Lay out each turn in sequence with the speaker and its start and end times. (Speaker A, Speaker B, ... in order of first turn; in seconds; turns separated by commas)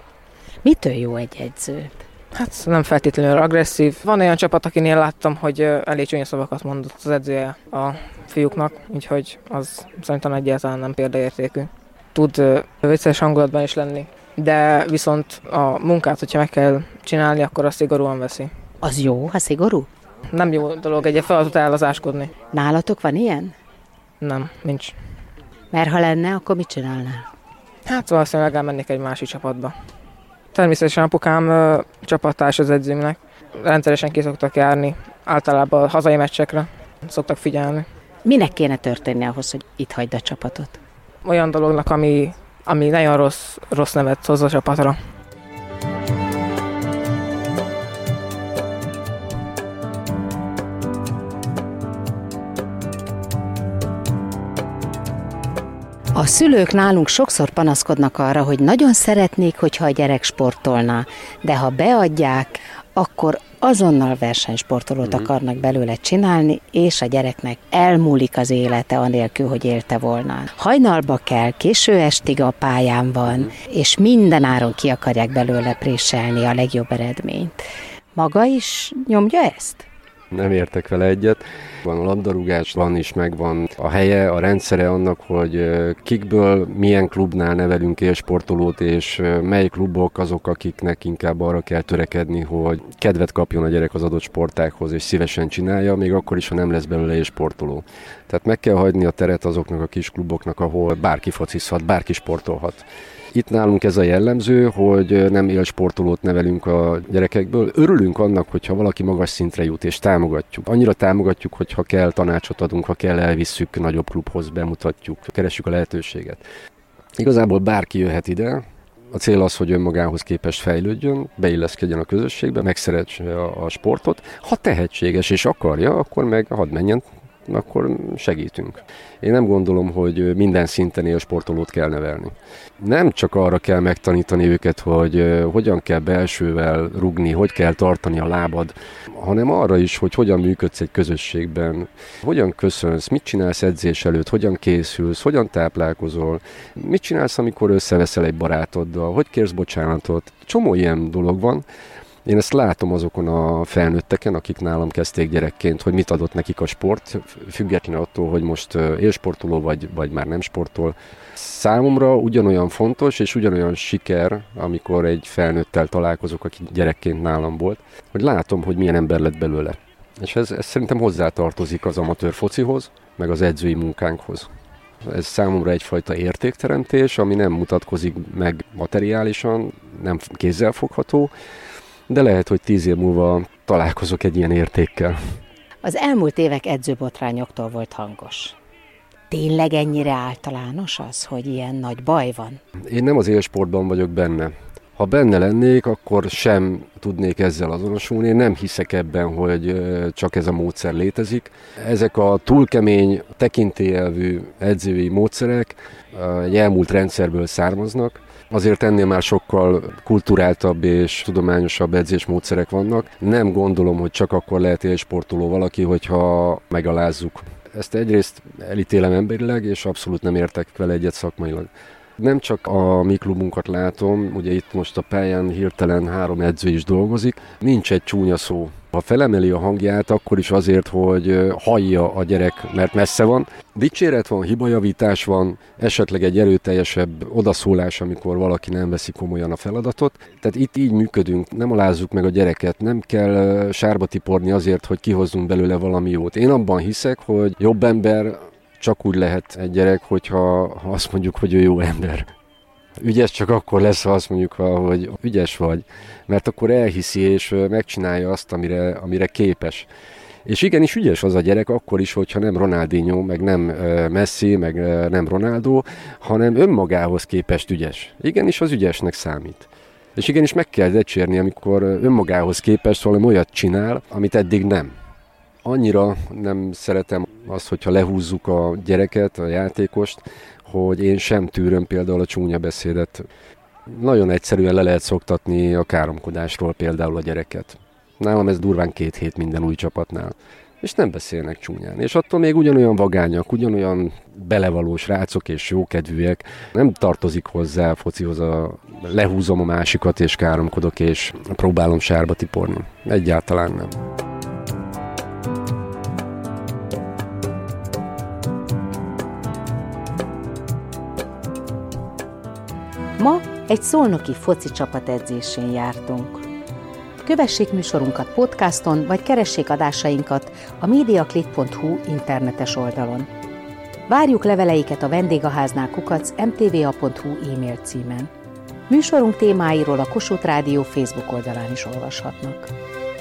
Speaker A: 0.6-2.0, Speaker B: 2.3-18.5, Speaker A: 18.8-19.9, Speaker B: 20.3-22.3, Speaker A: 22.5-23.5, Speaker B: 24.2-24.9, Speaker A: 25.7-27.3, Speaker B: 27.9-29.7, Speaker B: 30.5-37.8, Speaker A: 38.2-40.8, Speaker B: 41.2-45.0, Speaker A: 56.1-77.6, Speaker A: 78.1-79.8, Speaker C: 80.3-116.4, Speaker C: 117.2-151.6, Speaker C: 152.2-174.5, Speaker C: 175.0-181.3, Speaker C: 182.1-185.4, Speaker A: 185.8-188.6, Speaker A: 189.3-192.6, Speaker C: 192.9-252.3, Speaker C: 253.0-259.9, Speaker C: 260.4-274.9, Speaker C: 275.6-283.3, Speaker C: 283.9-303.9, Speaker A: 313.2-316.5, Speaker A: 317.2-323.3, Speaker A: 324.1-328.3, Speaker A: 328.9-332.7